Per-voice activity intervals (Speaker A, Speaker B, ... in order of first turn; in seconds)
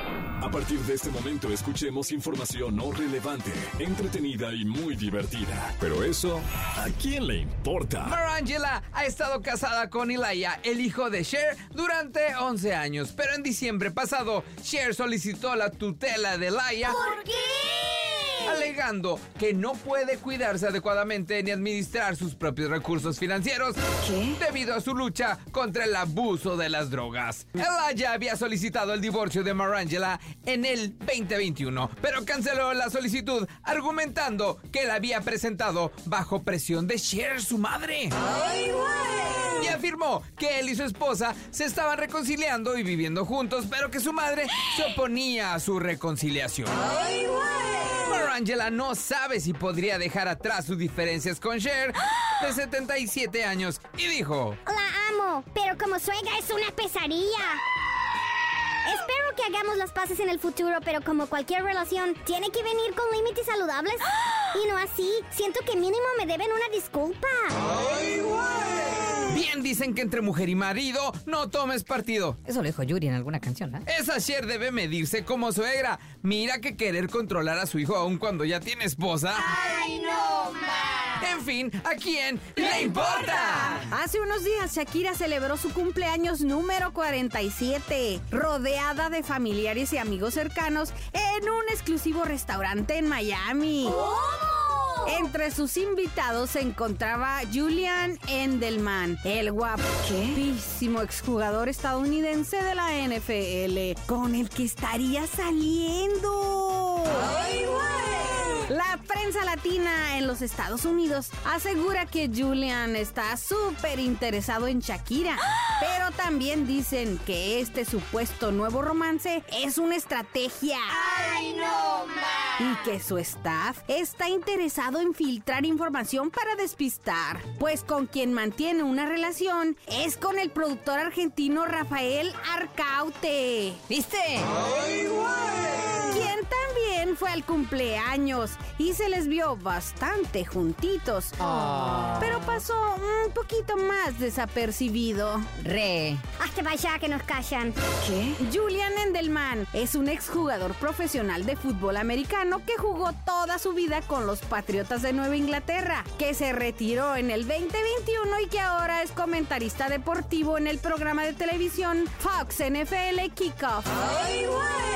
Speaker A: 0.4-8.2
Speaker B: 8.0-17.0, 18.4-38.1, 39.5-47.1, 48.0-54.6, 69.3-72.4, 73.9-79.6, 81.2-83.9
Speaker C: 16.9-18.6, 54.7-57.6, 58.9-67.7, 79.6-81.0, 94.0-95.0, 121.4-122.2, 146.4-147.8
Speaker D: 72.5-73.8, 133.9-134.6, 145.6-146.2
Speaker E: 83.8-94.1, 95.0-107.5, 108.5-121.4, 122.5-133.8, 136.0-145.5, 148.1-164.5